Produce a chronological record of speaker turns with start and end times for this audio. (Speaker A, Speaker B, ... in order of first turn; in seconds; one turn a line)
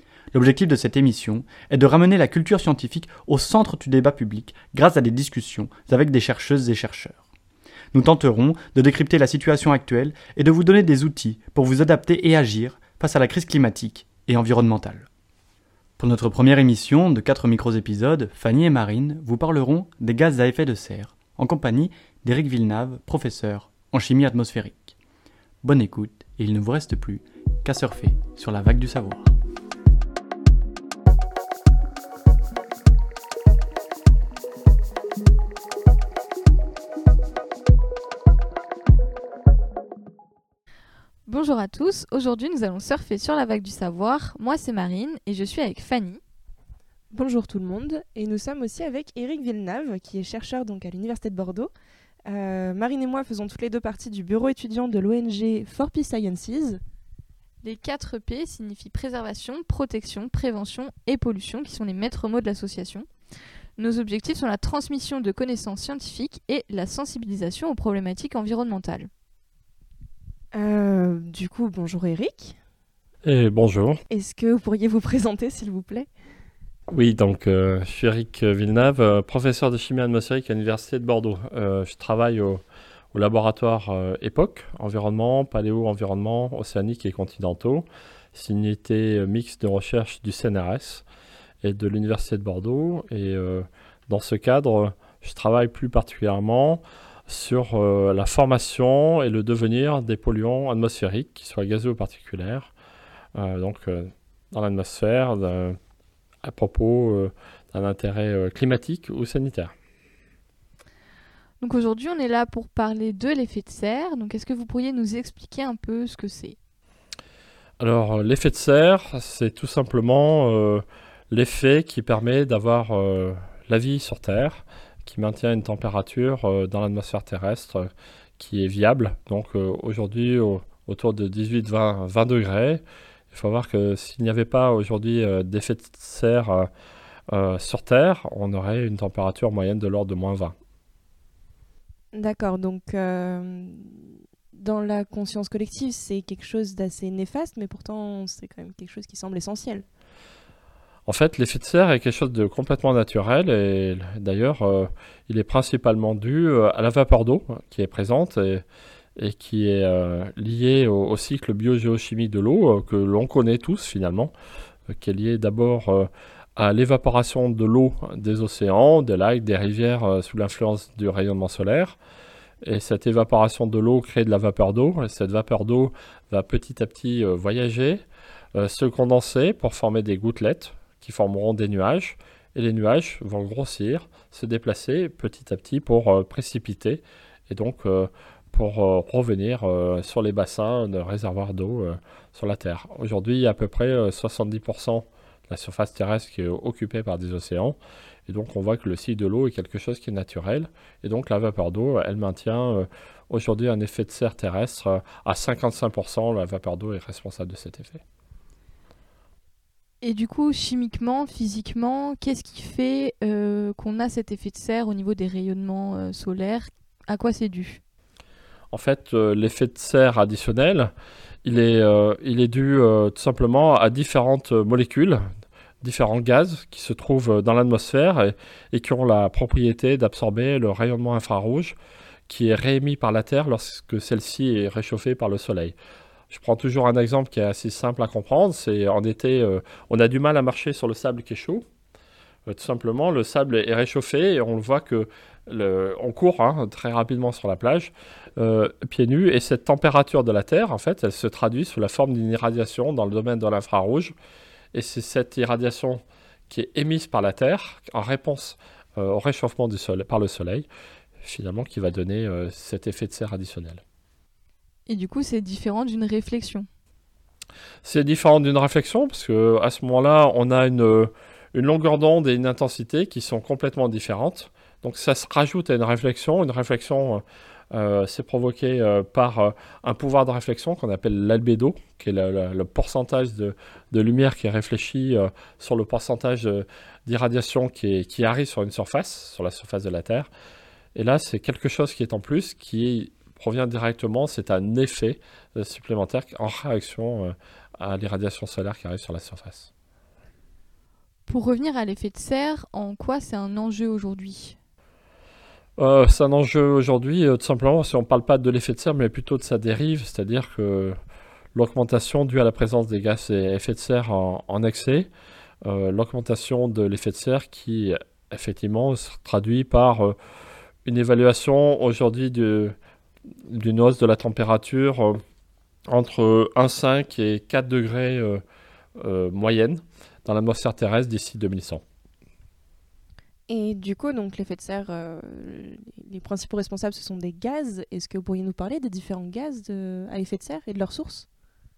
Speaker A: 0.3-7.2
Speaker A: 7.9-15.1
Speaker A: 16.0-24.9
Speaker A: 25.6-29.4
Speaker B: 41.2-46.2
Speaker C: 47.1-51.7
Speaker C: 52.2-56.8
Speaker B: 57.6-63.1
Speaker B: 63.8-69.1
Speaker C: 70.5-72.6
Speaker D: 73.2-74.0
Speaker C: 74.1-76.1
Speaker D: 76.9-91.0
Speaker D: 91.6-102.7
Speaker D: 103.3-105.8
Speaker D: 106.4-109.7
Speaker B: 111.6-116.5
Speaker D: 117.8-136.7
Speaker D: 137.3-140.5
Speaker C: 142.1-149.8
Speaker D: 151.1-158.6
Speaker D: 159.2-164.3
Speaker D: 164.9-172.0
Speaker D: 172.6-178.0
Speaker D: 178.5-208.0
Speaker B: 210.0-217.8
Speaker D: 218.7-220.9
Speaker D: 221.4-225.2
Speaker D: 225.8-231.8
Speaker D: 232.3-235.8
Speaker D: 236.3-241.7
Speaker D: 242.4-254.1
Speaker D: 254.7-260.7
Speaker D: 261.2-263.8
Speaker B: 264.9-266.7
Speaker D: 267.8-290.3
Speaker D: 290.9-299.7
Speaker B: 301.3-304.6
Speaker D: 305.8-310.9
Speaker D: 311.5-315.1
Speaker D: 315.6-320.1
Speaker D: 320.8-322.8
Speaker D: 323.5-325.2
Speaker D: 325.9-328.4
Speaker D: 329.0-331.8
Speaker C: 333.5-341.2